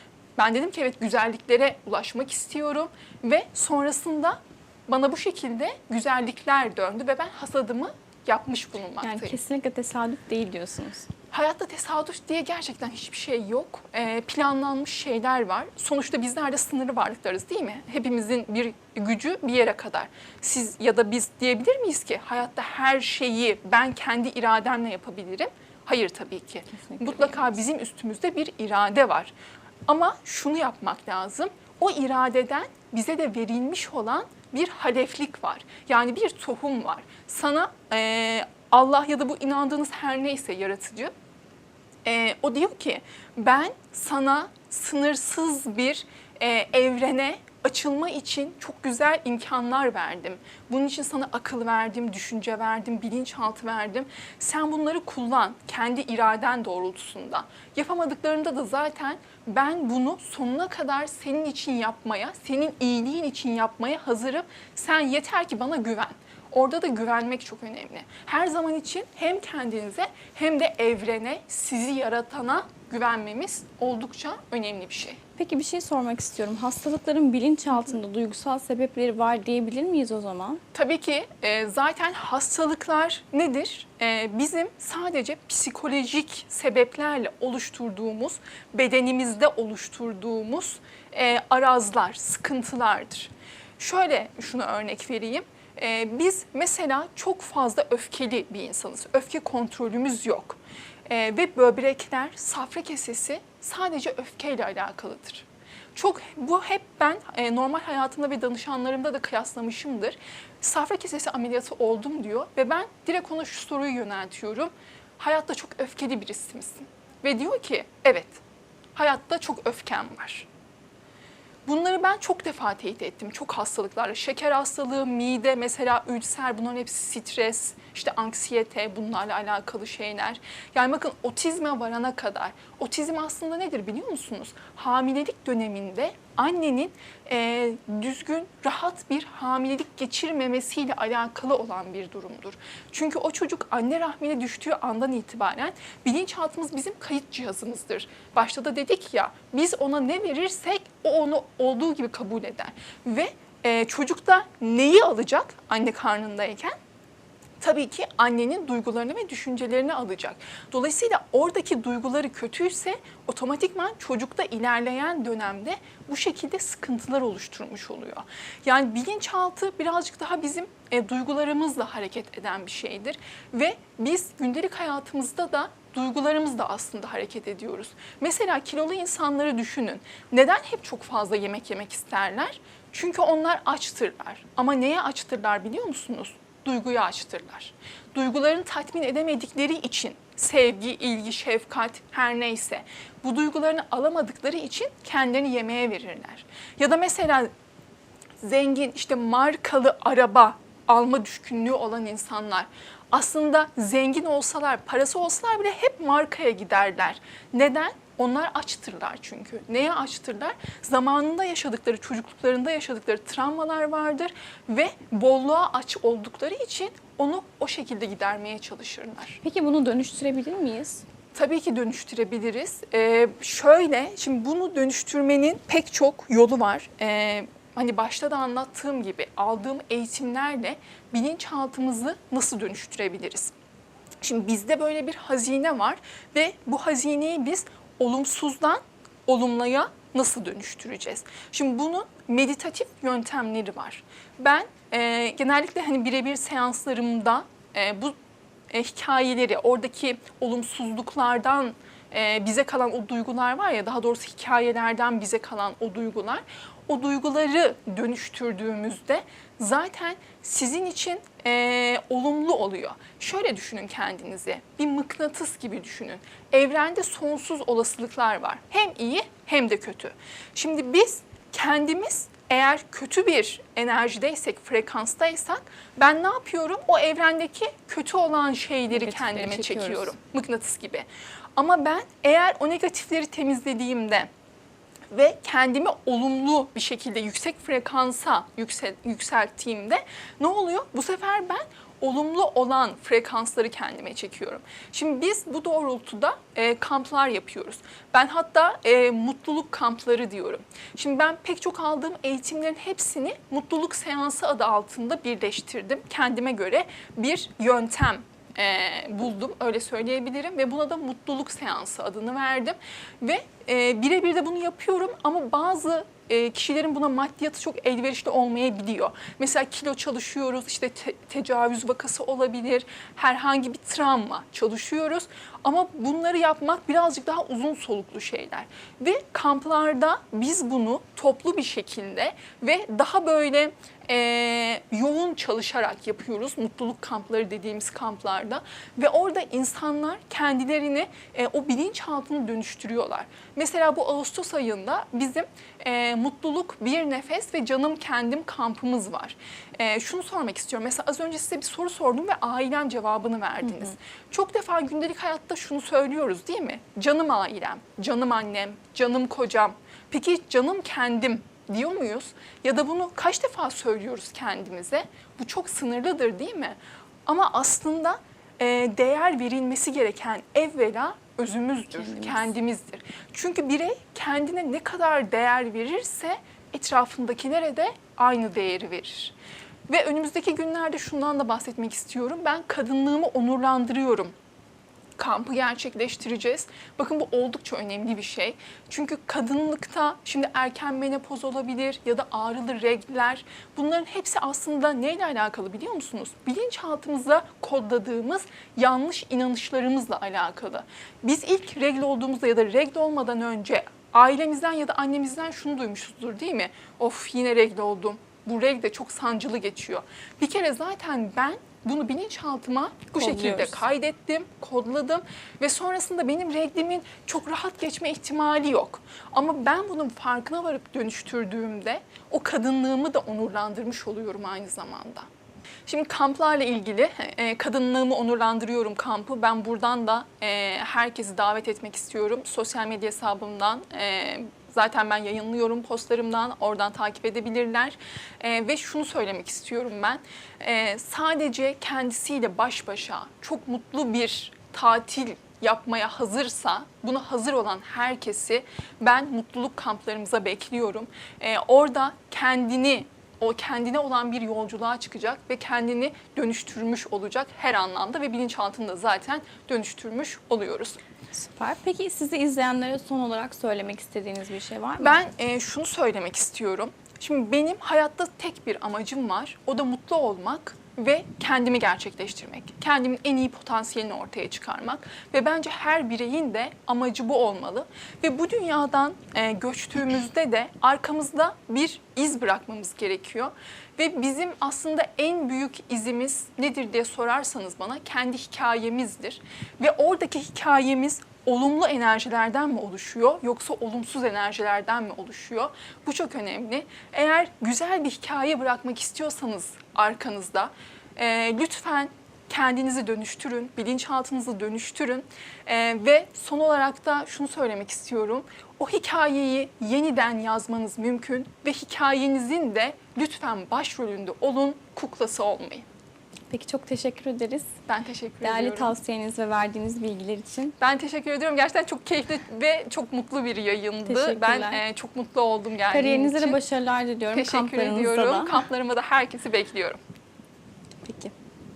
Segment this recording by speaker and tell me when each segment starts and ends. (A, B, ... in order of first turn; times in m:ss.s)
0:00.4-0:09.4 A
0:09.0-0:11.1 B
0:11.3-0:29.3 A
0:26.8-0:27.4 B
0:29.9-0:41.1 A
0:42.0-1:15.2 A
1:15.4-1:20.6 B
1:20.7-1:58.4 A
1:58.9-2:00.5 A
2:01.6-2:36.7 A
2:37.6-3:17.5 A
3:18.4-3:39.4 A
3:39.4-3:41.0 B
3:41.3-3:53.5 A
3:54.2-4:08.2 A
4:08.7-4:44.3 A
4:38.9-4:40.1 B
4:45.1-6:19.3 A
6:12.0-6:12.5 B
6:19.9-6:24.3 A
6:25.2-7:05.3 A
6:53.2-6:53.8 B
7:05.9-7:41.0 A
7:41.3-7:45.2 B
7:45.0-8:35.8 A
8:36.5-8:37.7 B
8:37.9-8:39.0 A
8:38.4-8:40.7 B
8:40.8-8:46.6 A
8:44.0-8:44.8 B
8:45.9-8:48.6 B
8:47.3-8:50.0 A
8:51.0-8:51.3 B